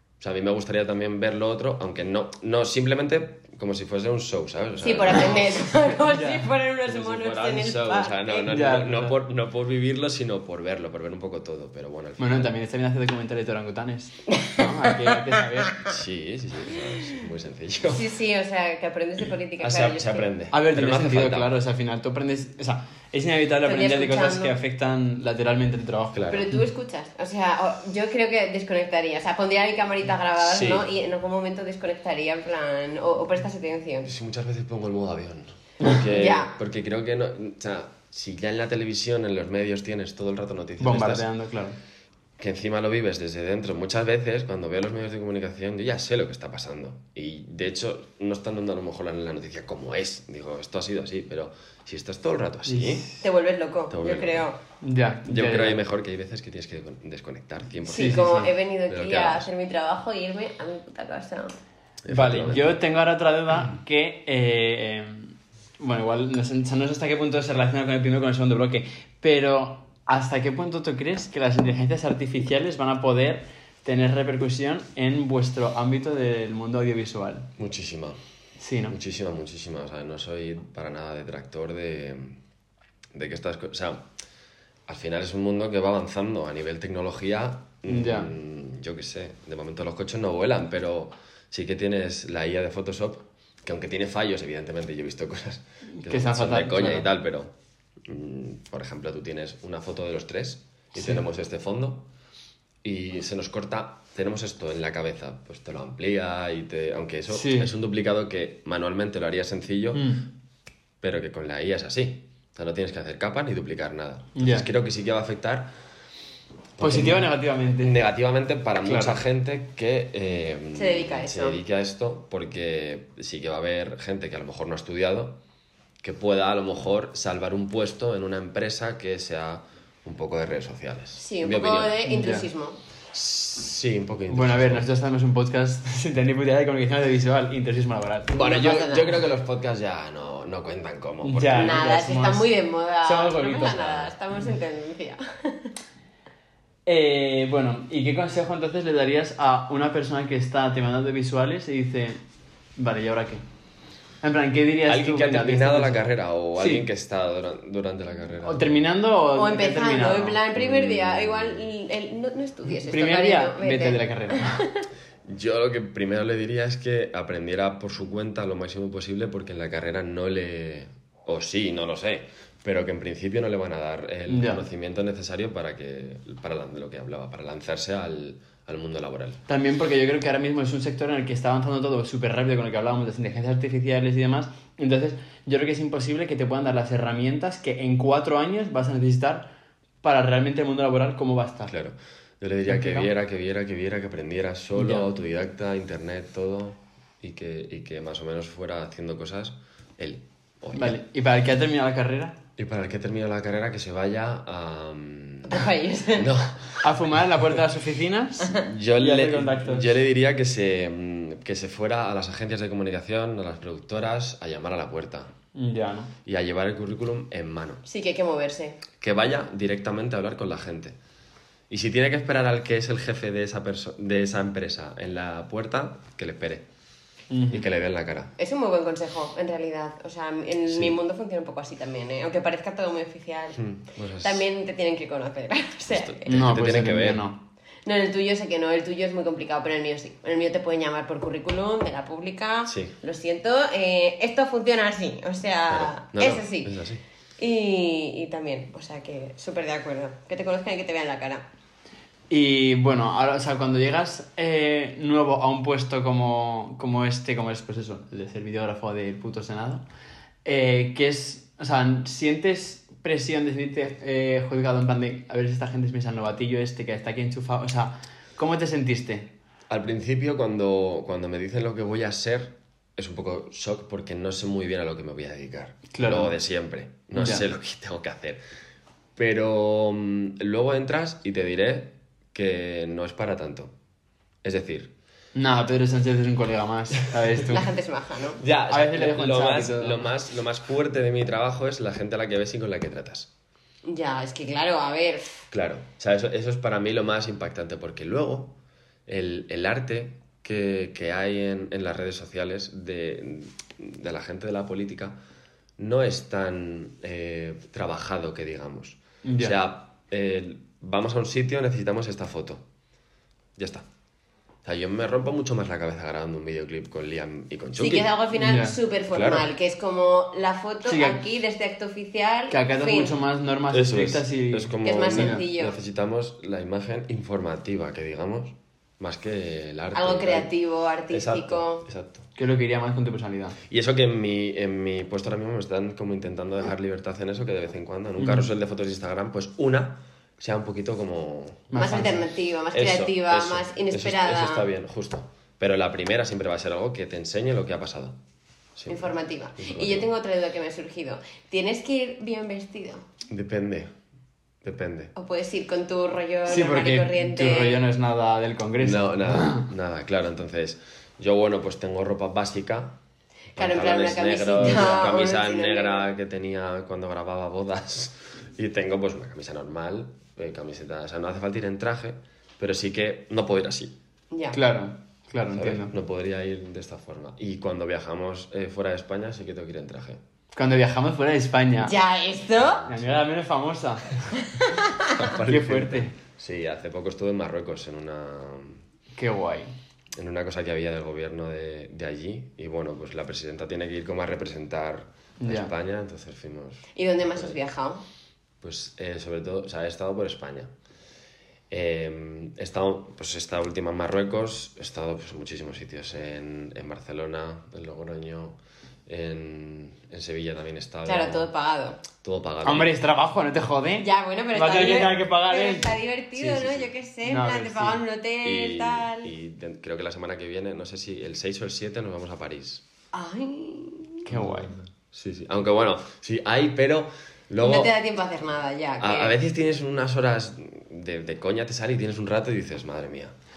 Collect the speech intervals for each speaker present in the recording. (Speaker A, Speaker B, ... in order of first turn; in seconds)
Speaker A: 0.2-5.6, 6.8-12.5, 15.8-18.1, 19.6-21.5, 26.1-26.4, 30.4-30.9, 34.0-41.3, 42.4-53.1, 53.9-54.5, 55.3-58.3, 58.9-59.5, 62.0-62.8, 77.6-78.2, 78.9-82.4, 83.1-84.1, 84.9-97.5, 98.0-102.1, 102.8-110.2, 111.0-115.7, 116.8-125.4, 126.0-132.0, 133.1-134.9, 138.3-141.9, 143.6-144.1, 154.9-158.7, 160.6-161.7, 165.3-179.4, 191.7-201.0, 202.6-206.8, 208.5-215.3, 216.2-217.8, 219.0-221.0, 221.7-226.7, 227.5-228.3, 230.7-230.9, 233.6-234.5, 235.9-237.3, 242.7-242.9, 245.7-247.0, 269.7-278.4, 279.2-283.7, 284.4-284.9, 288.4-293.3, 295.5-298.6, 299.1-305.2, 305.8-312.6, 313.6-313.9, 314.6-318.1, 319.1-319.5, 323.7-330.5, 331.1-332.2, 333.7-341.7, 342.7-348.2, 348.8-350.1, 353.3-353.9, 354.6-355.1, 358.8-363.0, 363.6-373.9, 375.5-380.2, 382.6-383.2, 385.1-388.8, 390.1-397.6, 398.6-400.7, 401.7-411.5, 412.2-412.9, 416.4-416.9, 418.4-422.8, 424.3-427.9, 429.0-433.3
Speaker B: 4.8-8.5, 17.9-20.3, 23.6-24.5, 26.3-34.1, 36.0-36.5, 53.2-54.6, 57.9-61.6, 120.8-121.6, 131.2-132.8, 138.4-139.2, 141.5-145.7, 159.3-164.8, 205.5-206.3, 217.9-218.8, 228.4-233.7, 234.2-236.3, 237.8-246.7, 247.4-251.5, 287.5-288.4, 293.9-295.4, 317.8-323.1, 324.8-325.8, 329.9-331.9, 341.7-344.7, 348.9-353.0, 355.2-357.8, 363.6-366.1, 374.3-374.6, 381.8-382.9, 384.6-385.1, 396.9-398.0, 411.1-412.0, 414.0-419.3, 423.1-424.2, 427.6-429.4
Speaker C: 6.0-6.5, 8.5-9.2, 12.2-15.8, 20.5-26.5, 40.8-41.8, 52.7-53.2, 54.8-55.8, 57.9-58.5, 62.1-77.5, 78.6-79.0, 87.9-88.3, 95.9-97.1, 100.9-101.2, 107.3-107.7, 109.9-110.2, 114.4-114.7, 116.8-118.0, 118.8-119.2, 132.1-132.4, 134.3-138.4, 141.2-142.5, 143.0-143.8, 146.9-152.2, 152.8-153.4, 154.2-156.1, 156.6-156.9, 158.4-160.4, 162.8-164.6, 174.3-174.7, 179.5-189.5, 190.0-191.7, 192.7-193.1, 194.8-195.1, 200.7-202.4, 206.8-209.9, 215.5-216.1, 227.3-227.7, 236.3-237.4, 252.3-259.9, 260.4-269.3, 275.9-276.4, 277.1-277.5, 285.4-287.7, 288.7-290.1, 309.2-309.6, 318.4-318.8, 320.9-321.2, 322.5-325.4, 332.4-333.6, 338.2-338.5, 341.7-342.3, 356.5-359.7, 374.5-375.9, 380.5-381.9, 382.9-384.3, 385.5-386.1, 389.1-389.7, 395.4-395.7, 412.6-415.9, 417.2-418.0, 424.2-424.8